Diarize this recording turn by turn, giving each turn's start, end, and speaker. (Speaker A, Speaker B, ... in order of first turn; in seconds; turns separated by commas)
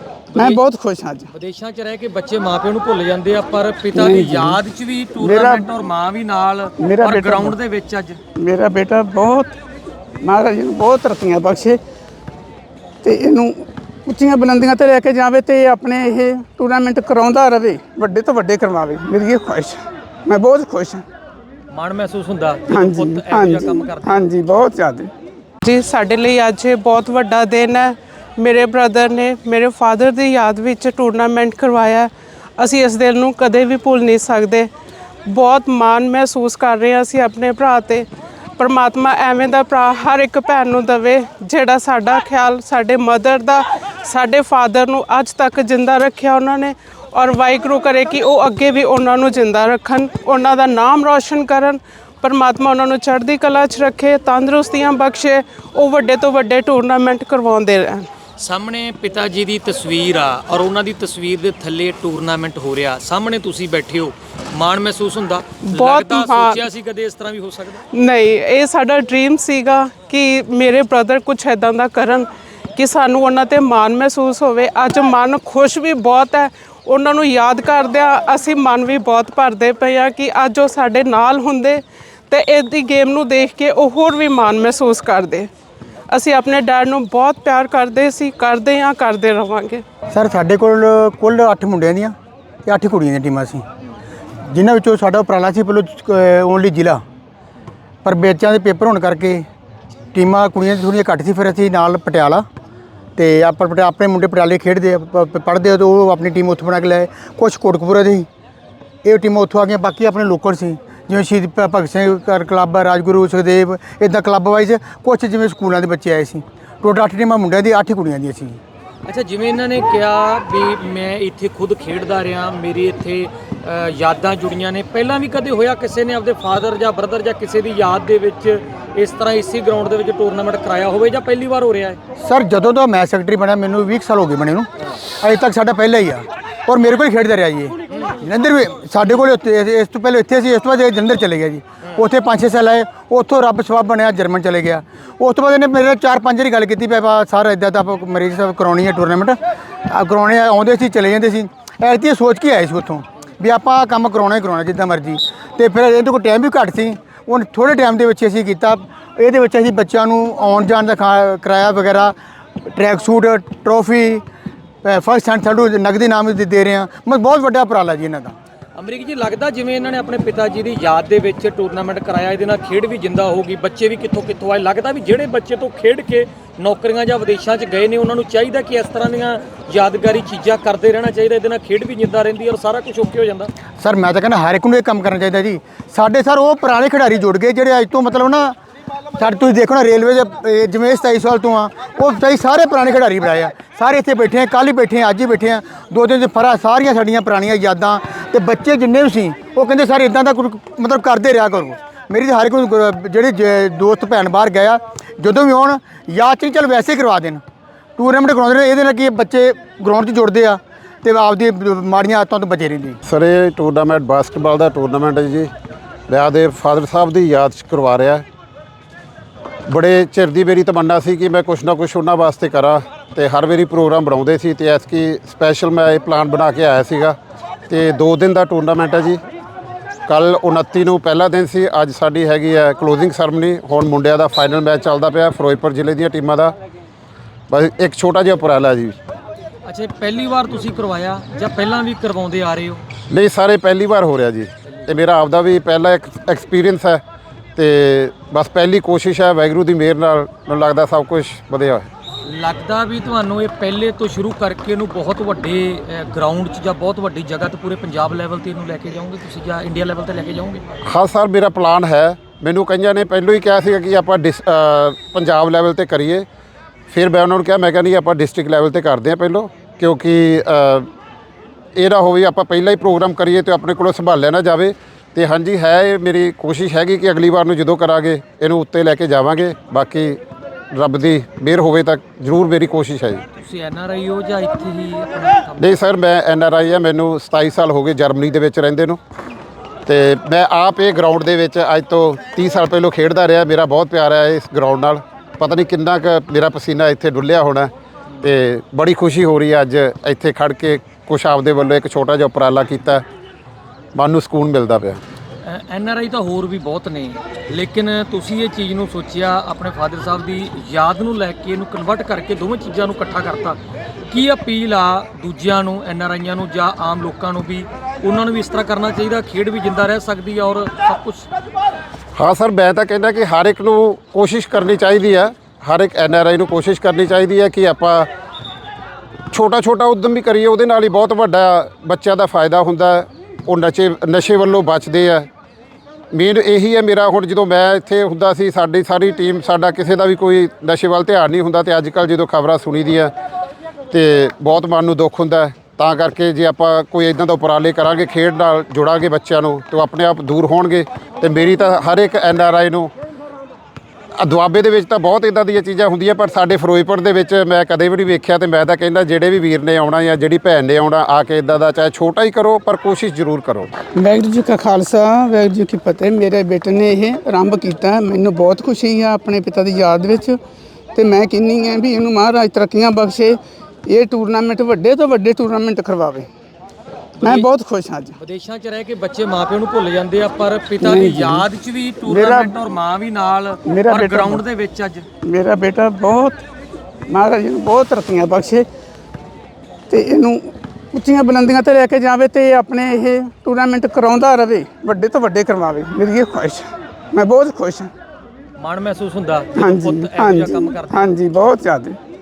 Speaker A: 0.3-0.6, Speaker B: 0.3-1.3, Speaker A: 1.3-8.2, Speaker B: 3.9-4.6, Speaker B: 5.2-5.7, Speaker B: 6.8-7.5, Speaker B: 8.3-9.6, Speaker B: 10.2-11.8, Speaker B: 13.0-21.0, Speaker A: 21.7-24.2, Speaker B: 22.7-25.1, Speaker C: 25.6-34.7, Speaker C: 35.2-58.1, Speaker A: 58.4-67.8, Speaker C: 65.7-66.6, Speaker C: 67.9-85.5, Speaker C: 86.1-89.8, Speaker D: 90.1-93.6, Speaker D: 94.5-97.0, Speaker D: 98.0-99.4, Speaker D: 100.1-102.5, Speaker D: 103.2-108.3, Speaker D: 109.0-118.6, Speaker A: 119.0-132.0, Speaker D: 132.2-134.7, Speaker D: 135.2-162.1, Speaker D: 162.7-164.2, Speaker D: 164.8-168.3, Speaker A: 168.8-183.5, Speaker D: 183.8-188.6, Speaker D: 189.2-207.4, Speaker D: 208.0-213.0, Speaker E: 213.0-215.5, Speaker E: 216.1-218.2, Speaker E: 219.7-227.2, Speaker E: 227.7-229.2, Speaker E: 230.1-236.5, Speaker E: 237.5-239.0, Speaker A: 239.6-242.8, Speaker E: 243.1-247.0, Speaker E: 247.6-251.9, Speaker A: 252.2-260.6, Speaker E: 260.8-266.2, Speaker E: 266.9-270.9, Speaker E: 271.8-280.2, Speaker E: 280.7-283.2, Speaker A: 283.4-285.8, Speaker E: 285.6-289.0, Speaker E: 289.9-297.7, Speaker E: 298.2-303.0, Speaker E: 303.9-305.0, Speaker A: 305.4-321.3, Speaker E: 322.1-328.1, Speaker E: 329.3-335.3, Speaker E: 336.1-343.1, Speaker E: 343.9-352.9, Speaker E: 354.2-363.7, Speaker B: 363.9-370.4, Speaker B: 370.9-376.3, Speaker A: 377.1-377.5, Speaker B: 377.2-378.1, Speaker A: 378.2-385.0, Speaker B: 380.8-381.4, Speaker B: 382.1-382.6, Speaker B: 383.6-384.4, Speaker B: 385.2-386.4, Speaker B: 387.1-388.6, Speaker B: 389.9-397.9, Speaker A: 398.6-401.1, Speaker B: 399.6-402.0